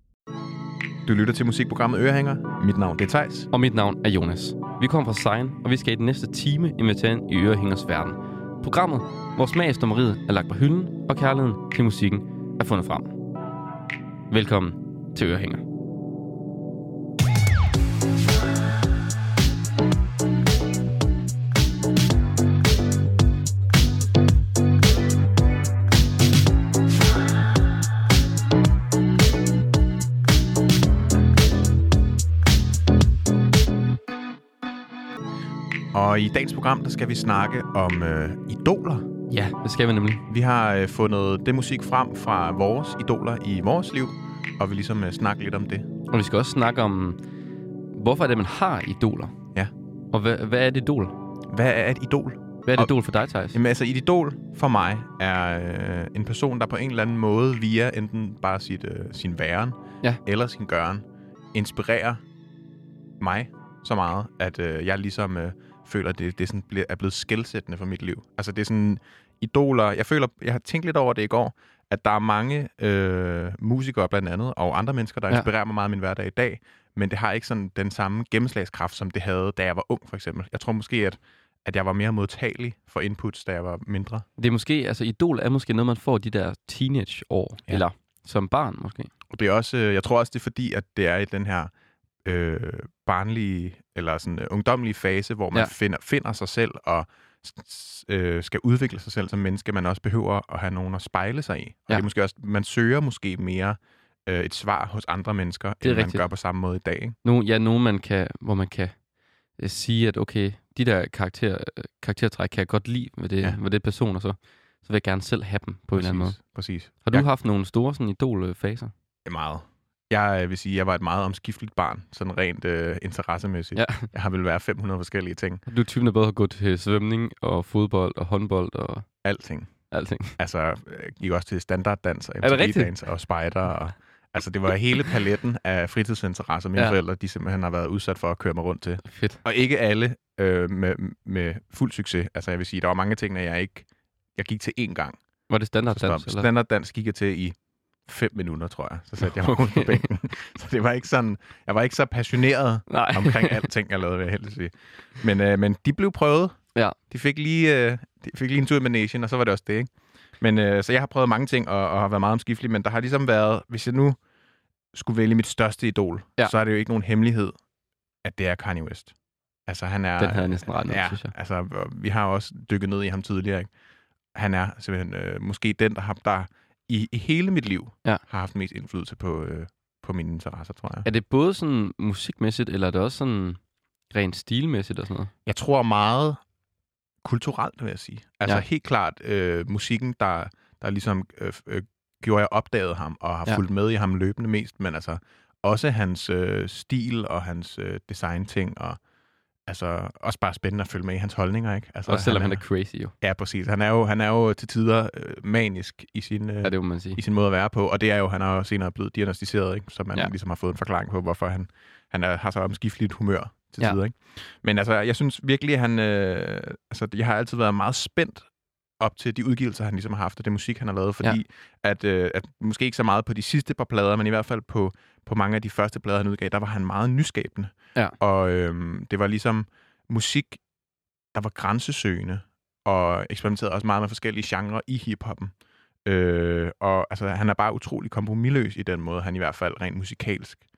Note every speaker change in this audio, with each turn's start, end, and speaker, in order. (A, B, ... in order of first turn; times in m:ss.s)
0:01.0-0:03.5 A
0:03.5-0:13.1 B
0:14.3-0:15.6 B
0:35.9-0:39.1 A
0:39.3-0:40.2 B
0:40.3-0:45.9 A
0:46.1-0:47.2 B
0:47.9-0:49.3 B
0:50.1-0:51.1 B
0:51.5-0:52.9 A
0:52.6-0:53.6 B
0:53.5-1:02.2 A
1:03.2-1:24.2 A
1:24.4-1:29.1 B
1:29.3-1:31.7 A
1:32.2-1:47.2 A
1:45.8-1:46.2 B
1:47.2-1:49.0 B
1:49.6-1:56.4 B
1:55.9-1:57.3 A
1:56.9-1:58.9 B
1:59.2-2:05.6 A
2:03.8-2:04.1 B
2:05.7-2:09.1 B
2:09.2-2:25.2 A
2:09.9-2:10.4 B
2:12.4-2:12.9 B
2:19.0-2:19.4 B
2:25.5-2:26.5 B
2:25.9-2:44.2 A
2:29.2-2:30.1 B
2:32.9-2:33.6 B
2:44.9-2:47.6 A
2:48.2-2:49.1 A
2:49.6-2:53.7 A
2:50.2-2:51.3 B
2:54.3-3:01.1 A
3:01.0-3:05.3 B
3:05.4-3:06.4 A
3:07.2-3:19.0 A
3:19.6-3:22.6 A
3:22.1-3:23.1 B
3:23.2-3:50.6 A
3:26.6-3:27.2 B
3:51.3-4:00.6 A